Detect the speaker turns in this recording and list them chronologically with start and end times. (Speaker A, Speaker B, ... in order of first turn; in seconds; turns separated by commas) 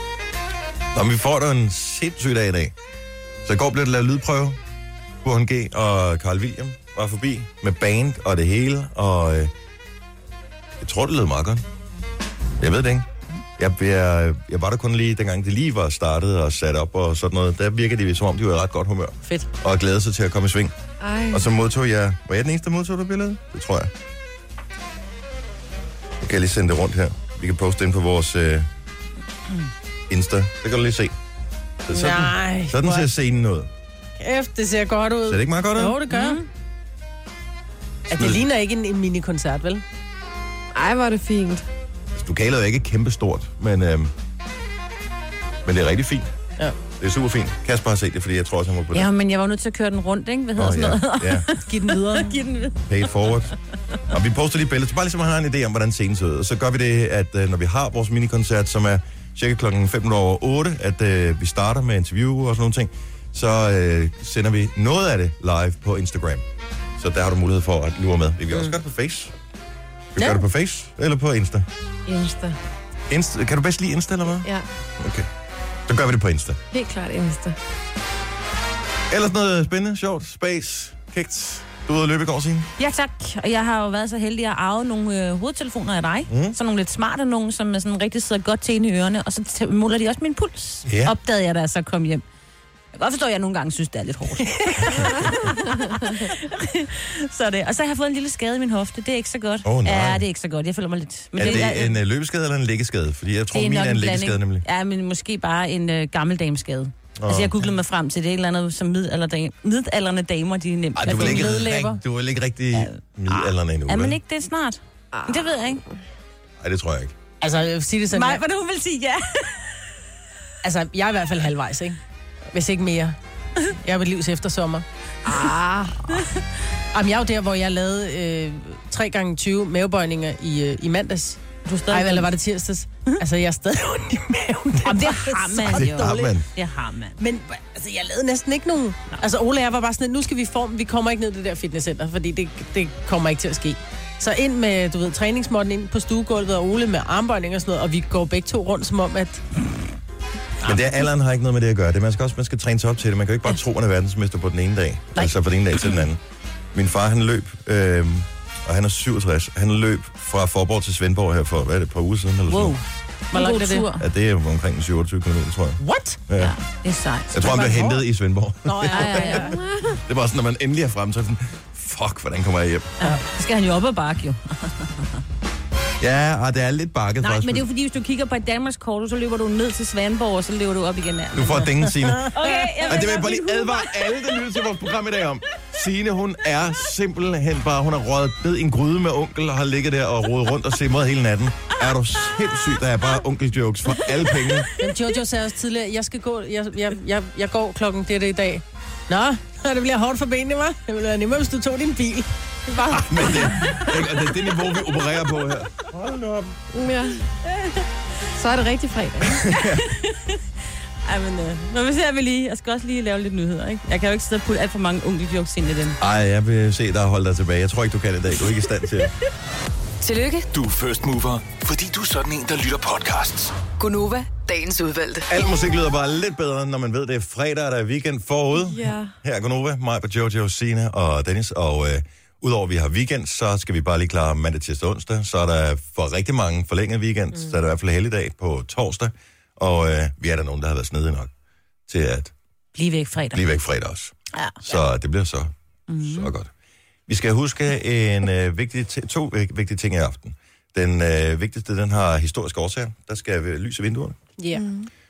Speaker A: 0.9-2.7, Speaker A: 3.4-4.6, Speaker A: 5.2-9.5, Speaker A: 10.8-11.7, Speaker A: 12.6-13.1, Speaker A: 13.6-20.7, Speaker B: 19.2-19.5, Speaker C: 21.0-21.5, Speaker A: 21.3-23.9, Speaker A: 26.2-28.7, Speaker A: 30.1-31.1, Speaker A: 31.9-33.7, Speaker B: 31.9-33.1, Speaker B: 34.2-36.4, Speaker A: 35.3-36.0, Speaker D: 36.1-36.5, Speaker B: 38.1-39.8, Speaker A: 38.1-38.5, Speaker C: 40.7-41.6, Speaker A: 42.1-44.1, Speaker A: 45.6-46.3, Speaker A: 47.0-49.1, Speaker D: 48.9-52.8, Speaker A: 50.6-51.5, Speaker B: 51.5-52.5, Speaker A: 52.9-53.5, Speaker A: 54.1-66.5, Speaker A: 67.0-69.3, Speaker A: 70.2-71.7, Speaker C: 72.1-72.6, Speaker A: 73.1-74.5, Speaker C: 74.4-74.7, Speaker A: 75.0-75.3, Speaker A: 75.9-76.6, Speaker C: 76.7-77.6, Speaker A: 79.1-82.7, Speaker D: 82.8-92.2, Speaker A: 86.3-86.6, Speaker A: 90.9-91.1, Speaker D: 92.9-101.9, Speaker A: 99.6-100.2, Speaker A: 101.4-104.7, Speaker B: 101.4-101.7, Speaker D: 103.5-111.7, Speaker A: 107.2-107.7, Speaker A: 111.0-114.2, Speaker B: 111.0-112.0, Speaker D: 112.7-115.8, Speaker C: 115.1-115.8, Speaker A: 116.6-117.1, Speaker B: 117.4-118.4, Speaker D: 118.1-119.8, Speaker B: 120.6-122.0, Speaker B: 122.5-123.2, Speaker B: 123.8-124.8, Speaker C: 125.3-126.0, Speaker B: 126.9-136.3, Speaker D: 131.7-132.3, Speaker D: 134.8-137.2, Speaker A: 135.7-136.5, Speaker B: 137.2-149.4, Speaker A: 150.6-156.2, Speaker D: 155.2-156.0, Speaker A: 156.7-162.8, Speaker D: 162.5-164.1, Speaker B: 163.3-163.9, Speaker A: 164.0-166.6, Speaker B: 165.8-166.2, Speaker D: 166.4-168.0, Speaker A: 167.3-172.9, Speaker B: 168.7-169.5, Speaker D: 168.9-169.6, Speaker C: 169.6-169.9, Speaker D: 173.0-175.2, Speaker A: 176.0-177.7, Speaker D: 177.2-183.8, Speaker A: 181.3-182.3, Speaker B: 182.0-183.4, Speaker A: 182.8-194.7, Speaker B: 194.8-203.9, Speaker A: 203.0-206.6, Speaker C: 206.7-207.2, Speaker C: 208.3-209.4, Speaker A: 209.3-209.8, Speaker D: 209.6-210.4, Speaker D: 211.1-216.0, Speaker A: 216.0-219.1, Speaker E: 220.0-220.5, Speaker F: 220.5-223.6, Speaker E: 223.8-225.3, Speaker A: 225.3-241.3, Speaker C: 228.6-229.1, Speaker A: 241.9-242.3, Speaker D: 242.8-243.4, Speaker A: 243.3-246.5, Speaker D: 244.3-244.7, Speaker D: 245.9-246.3, Speaker A: 247.1-254.2, Speaker B: 254.4-254.7, Speaker C: 254.5-254.9